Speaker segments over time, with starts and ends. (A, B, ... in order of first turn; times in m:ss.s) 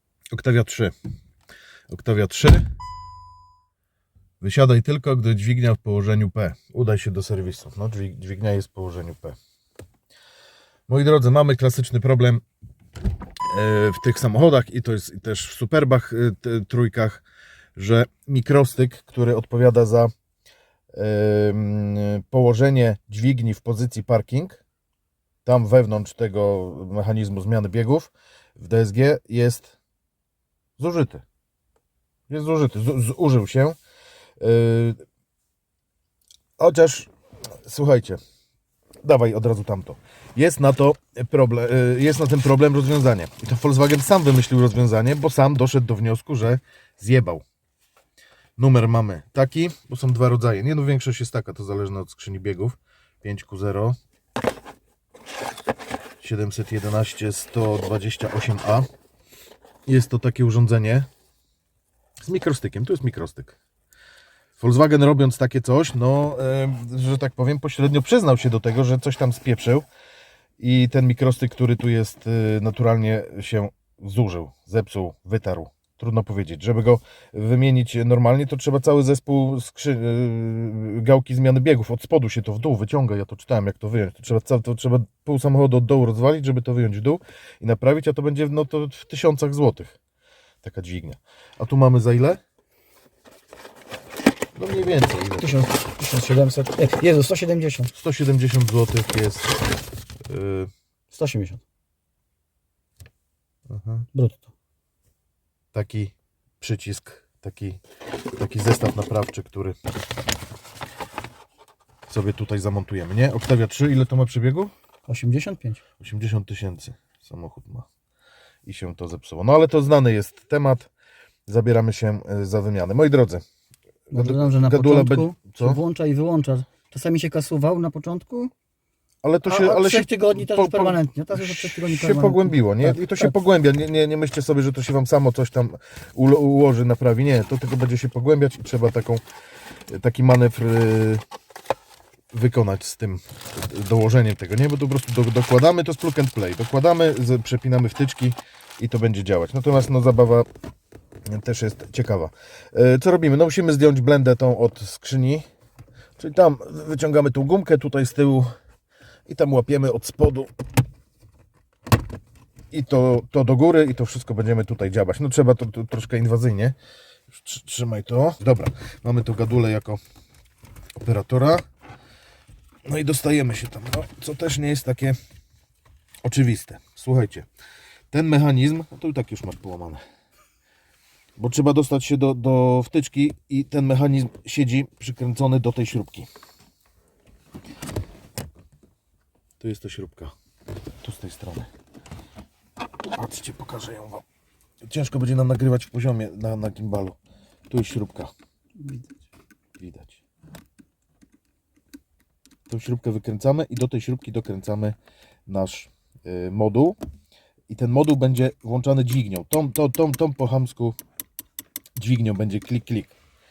0:00.3-0:00.9 A
0:01.9-0:02.7 A
0:04.4-0:09.4 A
0:10.9-0:12.4 A
0:13.5-0:17.2 A
0:17.8-0:20.1 A
0:20.9-0:24.6 A
0:25.4-0:29.8 A
0:30.8-0:31.2 A
0:32.3-0:33.8 A
0:34.4-0:35.0 A
0:36.6-0:38.2 A
0:39.0-0:47.4 A
0:48.6-0:54.0 A
0:56.2-0:58.9 A
0:59.8-1:01.1 A
1:02.2-1:03.6 A
1:04.6-1:09.8 A
1:10.6-1:30.0 A
1:30.6-1:32.4 A
1:34.5-1:35.7 A
1:35.4-1:37.9 B
1:37.9-1:39.6 A
1:40.3-1:40.7 A
1:41.1-1:41.6 B
1:43.7-1:44.1 A
1:44.1-1:44.5 B
1:45.7-1:47.8 A
1:48.3-1:49.8 A
1:52.1-1:54.7 A
1:55.0-1:55.8 B
1:56.0-1:57.9 A
1:58.6-2:00.9 A
2:01.5-2:03.4 A
2:04.1-2:05.8 A
2:04.1-2:08.5 B
2:09.2-2:19.2 A
2:09.4-2:13.4 B
2:19.9-2:21.2 A
2:22.3-2:30.5 A
2:31.2-2:35.5 A
2:36.2-2:38.5 A
2:39.2-2:40.5 A
2:42.7-2:46.8 A
2:47.3-2:50.0 A
2:51.0-2:51.6 A
2:52.8-2:55.2 A
2:56.2-2:57.5 A
2:58.1-3:00.0 A
3:01.4-3:06.3 A
3:09.6-3:10.3 A
3:11.0-3:11.7 A
3:13.1-3:14.2 A
3:14.8-3:17.2 A
3:17.7-3:18.3 A
3:18.8-3:19.2 B
3:19.8-3:20.2 A
3:22.7-3:25.0 A
3:25.5-3:27.0 A
3:27.7-3:31.0 A
3:32.0-3:33.2 A